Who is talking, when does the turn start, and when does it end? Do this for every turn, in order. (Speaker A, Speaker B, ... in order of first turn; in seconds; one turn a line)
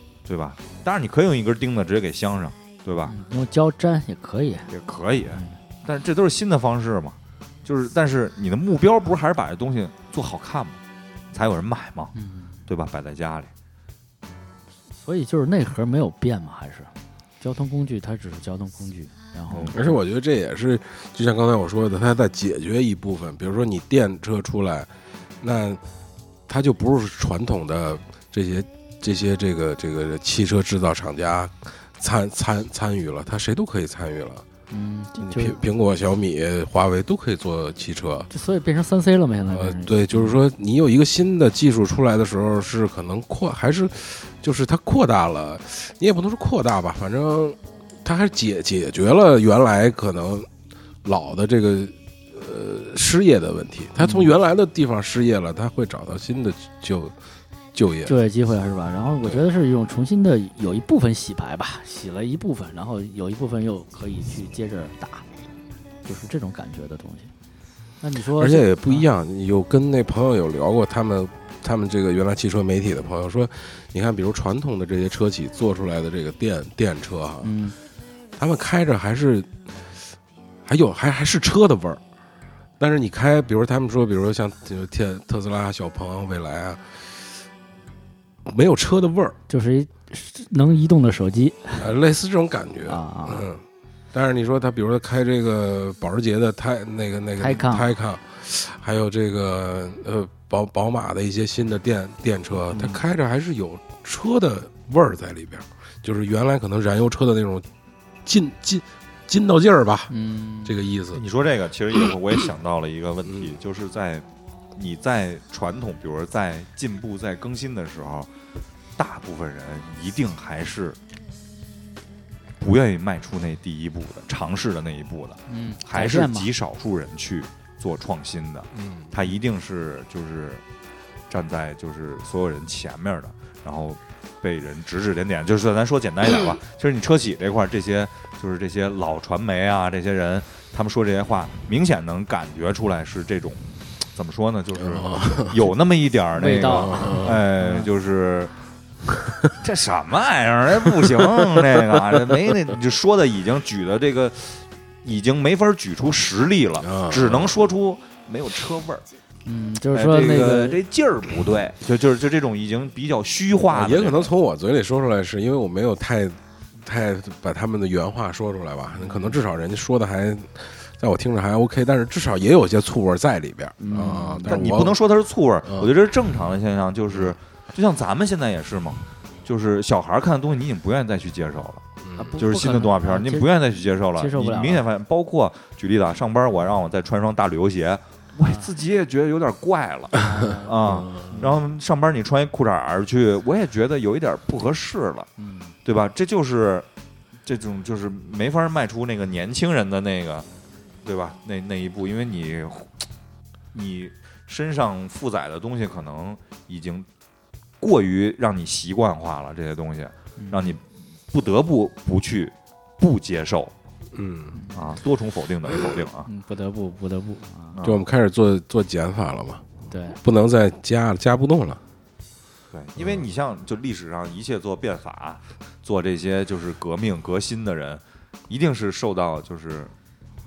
Speaker A: 0.2-3.2
Speaker B: 3.1-4.7
Speaker A: 4.7-10.8
Speaker A: 11.3-12.1
Speaker B: 12.2-12.6
Speaker A: 12.7-13.5
Speaker B: 15.0-19.9
Speaker A: 19.5-19.8
Speaker C: 19.7-24.9
Speaker C: 25.4-25.8
Speaker C: 26.5-34.5
Speaker B: 34.7-35.6
Speaker C: 35.2-38.3
Speaker B: 38.3-40.4
Speaker C: 39.5-50.5
Speaker C: 51.0-57.1
Speaker B: 54.0-54.3
Speaker C: 57.7-58.2
Speaker B: 58.1-65.2
Speaker B: 66.0-67.3
Speaker B: 68.0-69.1
Speaker C: 68.3-77.5
Speaker B: 77.4-77.8
Speaker C: 78.4-79.6
Speaker C: 80.7-82.0
Speaker C: 82.8-87.0
Speaker C: 88.5-89.4
Speaker B: 89.5-91.9
Speaker C: 91.8-93.6
Speaker B: 92.9-93.5
Speaker C: 94.1-107.7
Speaker B: 97.4-97.9
Speaker B: 102.7-103.0
Speaker C: 108.2-111.2
Speaker B: 110.1-110.8
Speaker A: 111.1-118.3
Speaker A: 119.0-121.0
Speaker A: 122.6-130.6
Speaker B: 125.5-126.5
Speaker C: 128.8-129.1
Speaker A: 131.3-148.5
Speaker C: 144.8-145.6
Speaker B: 146.3-147.9
Speaker C: 146.7-147.4
Speaker A: 149.6-159.1
Speaker C: 156.8-157.5
Speaker B: 159.5-160.8
Speaker A: 159.9-164.3
Speaker C: 163.7-175.0
Speaker B: 169.0-169.3
Speaker B: 173.8-174.7
Speaker A: 174.5-181.8
Speaker C: 182.0-182.4
Speaker B: 182.2-184.9
Speaker A: 182.4-195.3
Speaker B: 188.4-188.7
Speaker B: 190.2-191.5
Speaker C: 191.0-191.4
Speaker B: 195.4-195.8
Speaker A: 195.8-196.9
Speaker A: 197.4-200.5
Speaker A: 201.0-203.0
Speaker A: 203.7-207.1
Speaker A: 207.8-213.7
Speaker B: 210.4-210.8
Speaker C: 214.1-214.6
Speaker A: 214.7-216.3
Speaker B: 216.3-217.8
Speaker A: 217.8-218.0
Speaker C: 217.8-219.6
Speaker B: 219.9-220.2
Speaker C: 220.2-221.8
Speaker A: 222.7-229.9